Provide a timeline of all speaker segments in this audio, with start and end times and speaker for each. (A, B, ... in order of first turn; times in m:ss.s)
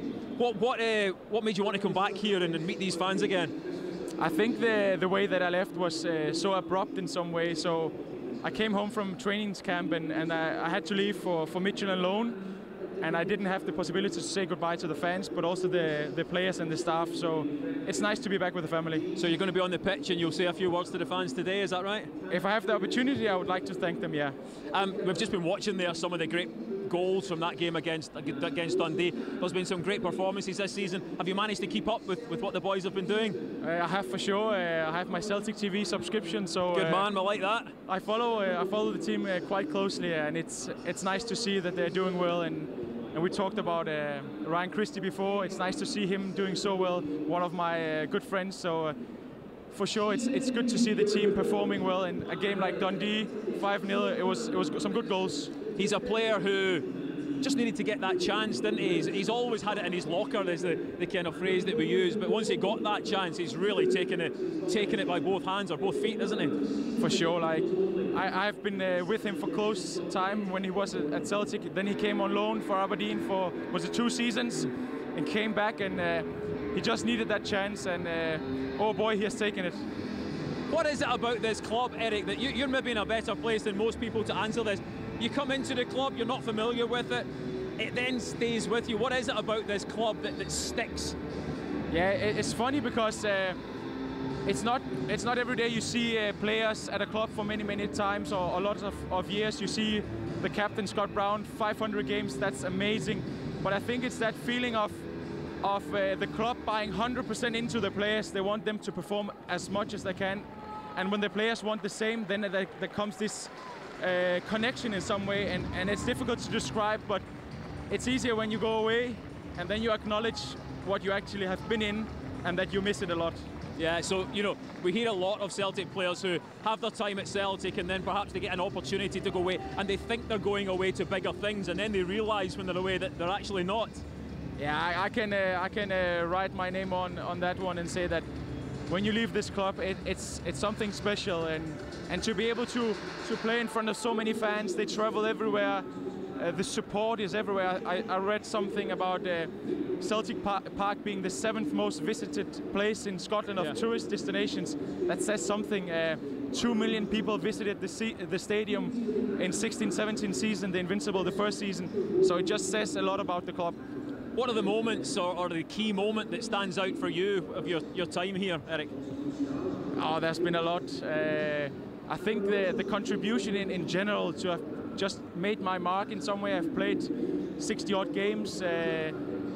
0:00.4-0:03.6 A
0:04.2-0:12.4 B
0:13.0-0:19.0 B
0:19.2-0:22.1 A
0:22.3-0:24.4 B
0:24.7-0:33.4 A
0:33.6-0:37.1 B
0:36.7-0:37.7 A
0:37.9-0:49.0 B
0:49.7-0:55.6 B
0:55.8-0:56.9 A
0:57.4-1:06.5 A
1:07.0-1:19.8 B
1:20.7-1:31.2 A
1:31.9-1:33.6 B
1:34.4-1:45.1 B
1:45.6-1:57.2 B
1:57.9-2:03.5 B
2:03.8-2:14.0 A
2:14.6-2:18.3 B
2:18.9-2:43.8 B
2:44.4-2:48.9 A
2:50.0-2:59.2 B